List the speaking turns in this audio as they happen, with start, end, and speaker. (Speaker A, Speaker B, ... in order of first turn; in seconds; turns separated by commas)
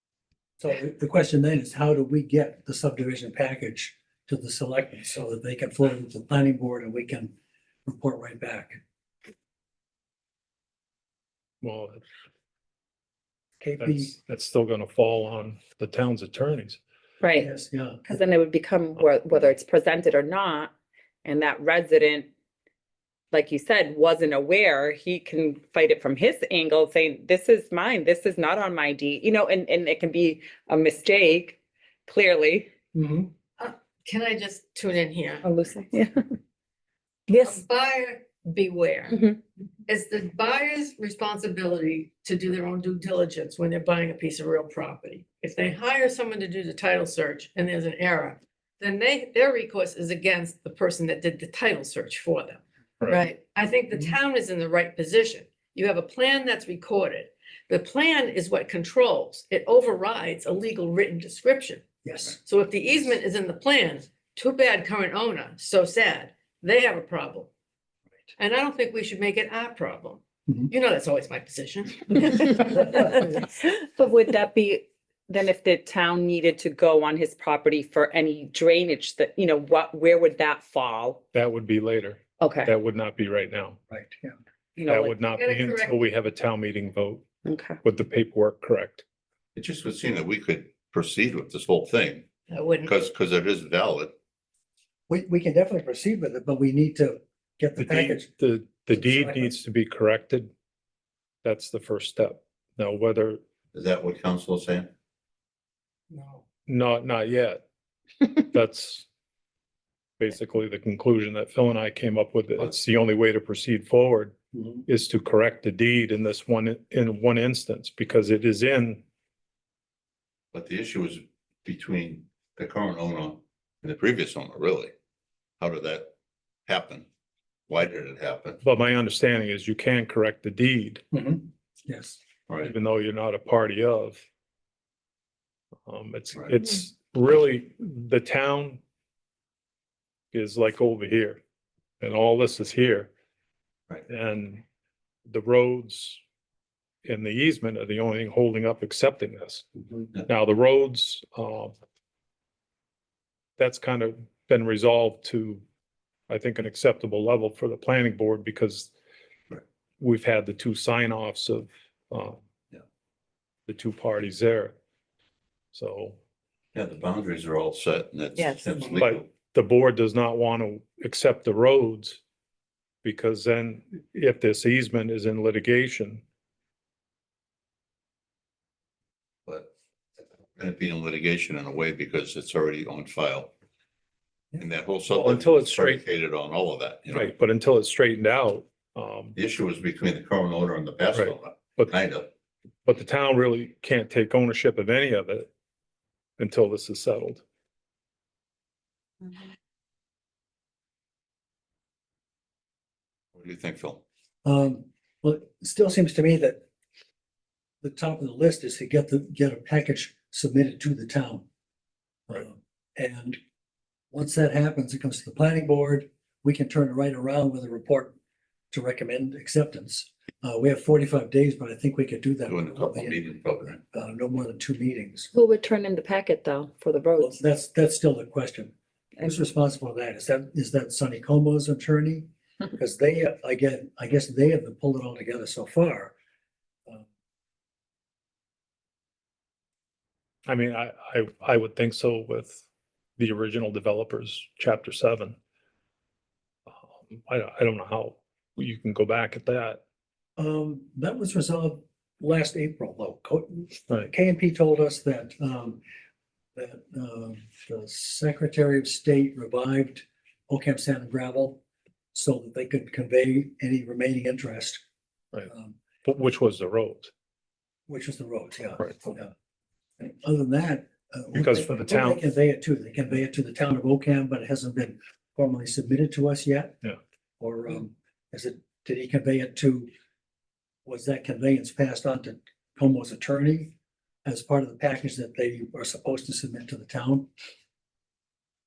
Speaker A: 0.6-7.3, Speaker A: 7.8-8.8, Speaker B: 11.6-12.0, Speaker A: 13.6-14.1, Speaker B: 13.8-16.8, Speaker C: 17.2-17.5, Speaker A: 17.4-18.2, Speaker C: 18.1-20.7, Speaker C: 21.2-22.3, Speaker C: 23.3-32.7, Speaker A: 32.9-33.3, Speaker D: 33.6-35.5, Speaker C: 35.4-36.2, Speaker C: 37.3-37.6, Speaker D: 37.4-39.2, Speaker C: 39.1-39.4, Speaker D: 39.9-61.8, Speaker A: 62.0-62.4, Speaker D: 62.4-67.5, Speaker D: 68.4-73.0, Speaker C: 72.6-81.2, Speaker B: 81.3-83.8, Speaker C: 82.4-82.7, Speaker A: 83.9-84.4, Speaker C: 84.8-85.2, Speaker B: 84.9-87.3, Speaker D: 85.3-86.0, Speaker C: 87.4-87.8, Speaker B: 87.8-89.0, Speaker E: 89.5-92.3, Speaker D: 92.5-92.9, Speaker E: 92.8-94.1, Speaker A: 95.1-98.3, Speaker B: 97.8-100.5, Speaker A: 98.9-99.5, Speaker B: 101.4-103.4, Speaker E: 103.7-104.9, Speaker D: 106.1-106.4, Speaker B: 106.7-107.6, Speaker B: 108.5-109.1, Speaker B: 110.2-114.3, Speaker A: 114.5-114.8, Speaker B: 114.9-119.0, Speaker E: 120.5-124.9, Speaker E: 125.6-126.1, Speaker E: 126.7-127.1, Speaker E: 127.7-128.6, Speaker B: 128.6-131.0, Speaker A: 131.1-132.2, Speaker B: 132.6-134.2, Speaker B: 135.9-138.8, Speaker B: 140.3-141.4, Speaker B: 142.0-143.1, Speaker B: 144.1-144.6, Speaker B: 145.3-146.2, Speaker B: 147.0-149.7, Speaker B: 150.2-151.7, Speaker B: 153.6-155.6, Speaker B: 156.3-158.9, Speaker B: 160.0-162.4, Speaker B: 163.7-164.8, Speaker B: 165.7-166.2, Speaker E: 166.7-169.3, Speaker C: 168.4-168.7, Speaker B: 169.0-172.2, Speaker B: 173.0-176.2, Speaker E: 180.6-183.5, Speaker E: 184.6-187.3, Speaker B: 185.1-186.0, Speaker B: 187.1-189.3, Speaker E: 189.3-192.3, Speaker B: 191.1-191.9, Speaker B: 192.8-195.5, Speaker B: 196.4-197.4, Speaker E: 203.3-204.0, Speaker A: 204.4-206.6, Speaker A: 207.8-211.4, Speaker A: 212.3-213.4, Speaker A: 214.1-218.1, Speaker A: 218.7-223.2, Speaker E: 222.5-223.8, Speaker A: 223.9-225.3, Speaker C: 225.3-227.3, Speaker A: 227.2-236.1, Speaker B: 240.4-242.6, Speaker B: 243.2-245.3, Speaker B: 246.8-249.8, Speaker A: 250.4-255.8, Speaker A: 256.6-261.6, Speaker A: 262.1-264.8, Speaker A: 265.5-265.8, Speaker B: 266.0-267.1, Speaker A: 267.9-269.3, Speaker A: 270.0-276.8, Speaker B: 271.3-272.2, Speaker A: 277.4-279.9, Speaker A: 280.9-287.3